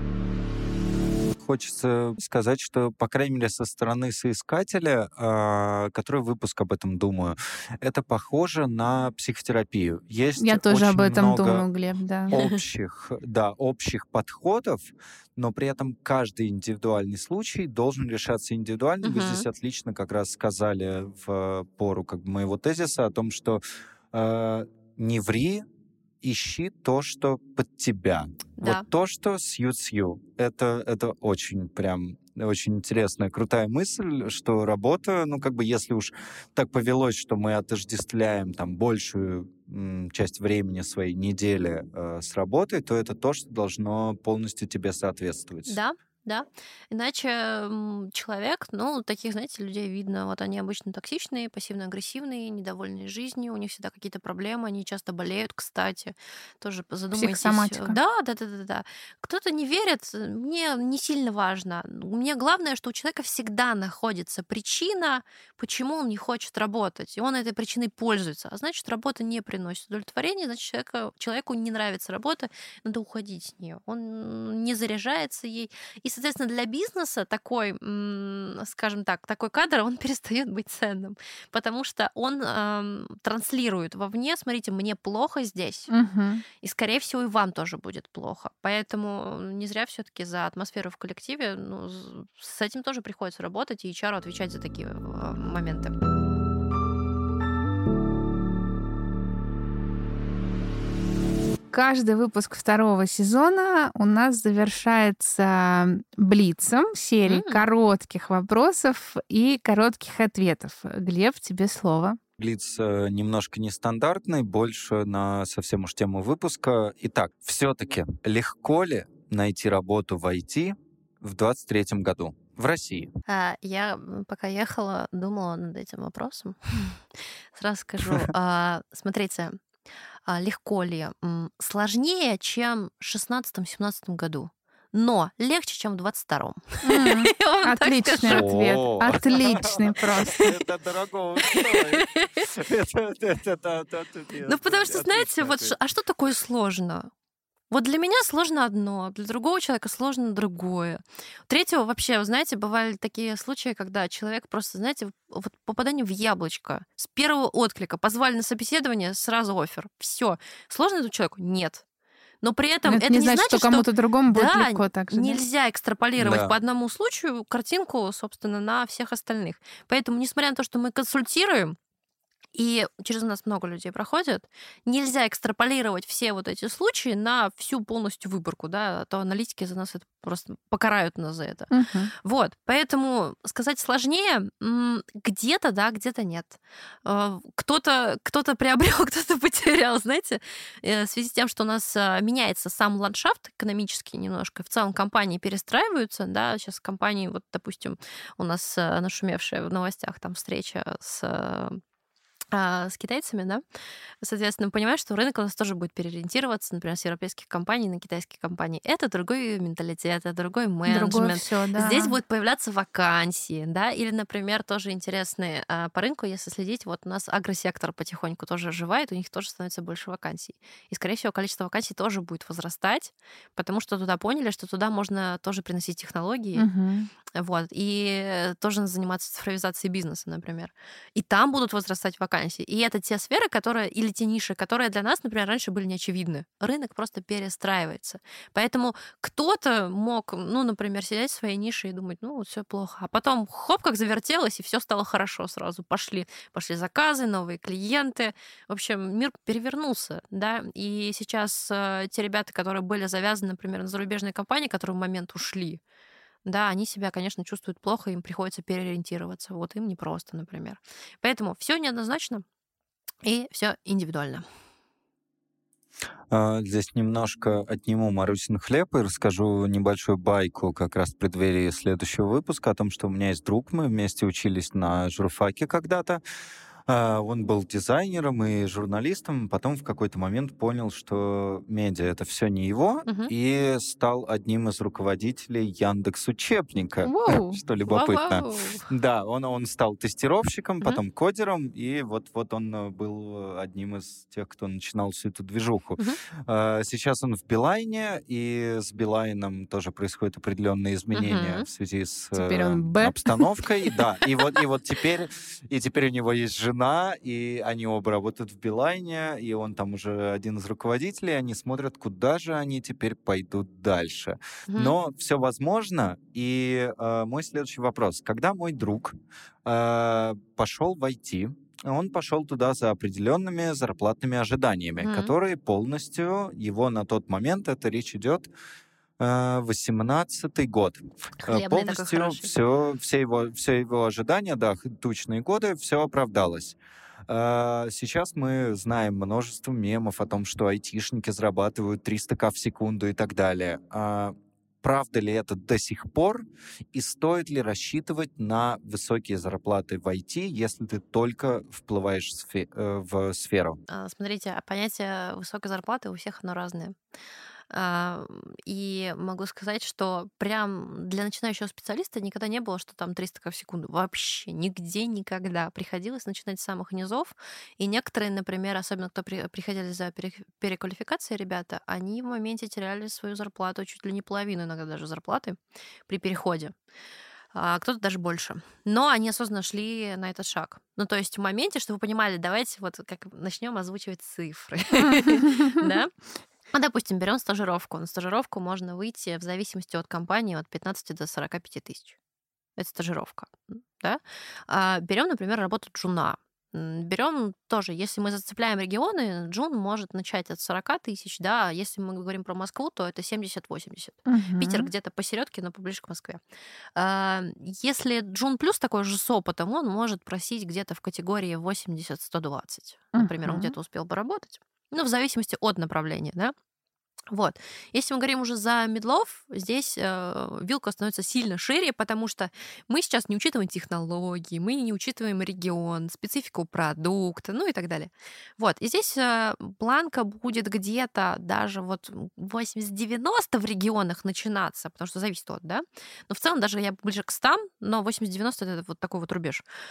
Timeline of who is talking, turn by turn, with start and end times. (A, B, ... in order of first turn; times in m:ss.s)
0:01.4-0:11.7 A
0:10.4-0:12.3 B
0:12.3-0:25.6 A
0:12.3-0:12.6 C
0:19.0-0:19.5 C
0:26.2-0:45.8 A
0:28.6-0:28.8 C
0:45.7-1:25.9 C
0:57.1-0:58.0 B
1:25.9-1:26.4 B
1:26.6-1:35.9 C
1:41.7-1:52.2 B
1:47.2-1:47.6 C
1:52.4-2:03.1 A
2:03.3-2:07.0 C
2:07.5-2:09.6 C
2:10.3-2:18.5 C
2:16.8-2:20.4 B
2:18.2-2:25.8 A
2:20.4-2:20.6 C
2:21.4-2:22.5 C
2:24.4-2:27.1 C
2:27.7-2:41.8 C
2:42.4-2:51.8 C
2:42.9-2:45.4 B
2:46.2-2:46.6 A
2:52.6-3:21.8 C
3:01.7-3:02.1 B
3:22.5-3:23.6 C
3:24.2-3:46.7 C
3:30.9-3:32.2 B
3:46.6-3:47.1 B
3:47.3-4:15.8 C
4:16.4-4:22.4 C
4:23.2-4:24.4 C
4:26.3-4:36.2 A
4:36.9-5:28.5 A
4:43.1-4:43.3 C
4:47.0-4:47.6 B
4:47.9-4:48.9 C
5:01.1-5:01.7 C
5:02.4-5:03.5 B
5:14.7-5:15.0 C
5:25.0-5:25.3 C
5:29.2-5:53.8 A
5:31.4-5:32.5 C
5:53.9-5:57.0 C
5:57.7-6:15.6 C
6:16.1-6:16.7 C
6:17.5-6:26.1 C
6:25.3-6:25.8 B
6:26.7-6:32.2 C
6:32.8-6:46.4 C
6:44.3-6:44.9 B
6:47.0-6:56.5 C
6:53.1-6:53.8 B
6:57.3-7:19.6 C